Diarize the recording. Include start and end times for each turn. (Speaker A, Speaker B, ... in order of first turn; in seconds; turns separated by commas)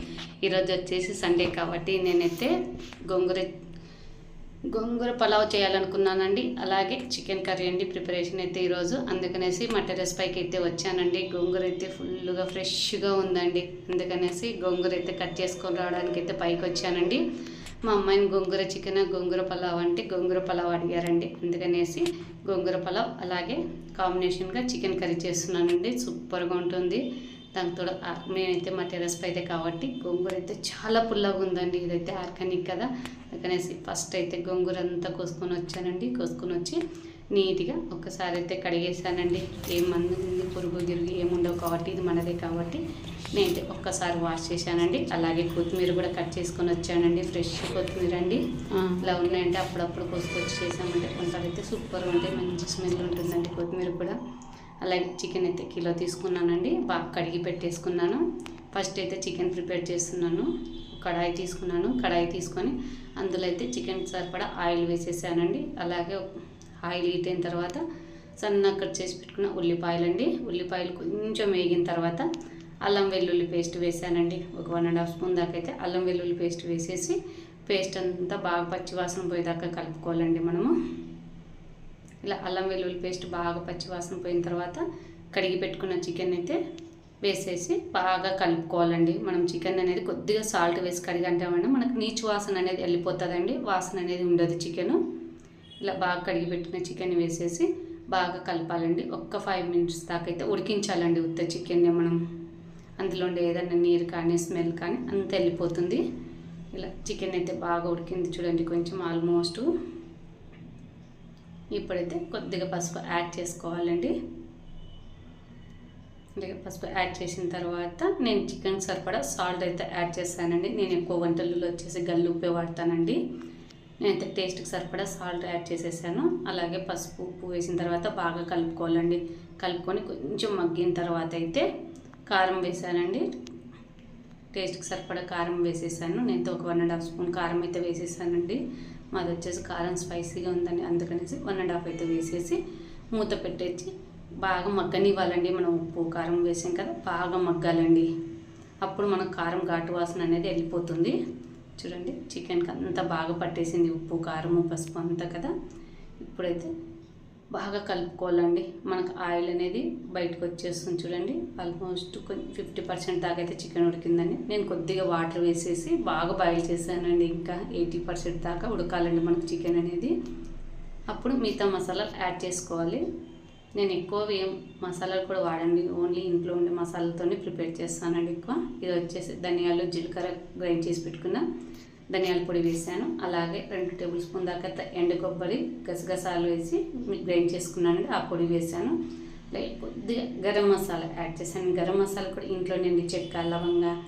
Speaker A: 0.4-2.5, Speaker A: 3.1-3.5, Speaker A: 4.7-17.2, Speaker A: 17.9-27.0, Speaker A: 27.5-36.8, Speaker A: 37.3-42.8, Speaker A: 43.3-48.4, Speaker A: 49.0-54.2, Speaker A: 54.8-66.2, Speaker A: 66.8-67.8, Speaker A: 68.4-72.2, Speaker A: 72.8-80.7, Speaker A: 82.2-84.8, Speaker A: 85.3-86.6, Speaker A: 87.2-95.0, Speaker A: 95.8-102.2, Speaker A: 103.0-106.0, Speaker A: 106.7-109.7, Speaker A: 111.7-114.1, Speaker A: 116.4-123.2, Speaker A: 124.0-131.7, Speaker A: 132.3-133.3, Speaker A: 134.5-138.6, Speaker A: 139.1-142.6, Speaker A: 143.1-143.9, Speaker A: 144.4-148.1, Speaker A: 148.8-151.2, Speaker A: 151.8-155.5, Speaker A: 156.2-156.7, Speaker A: 157.5-170.1, Speaker A: 171.1-173.0, Speaker A: 173.8-181.4, Speaker A: 182.1-188.9, Speaker A: 189.5-193.9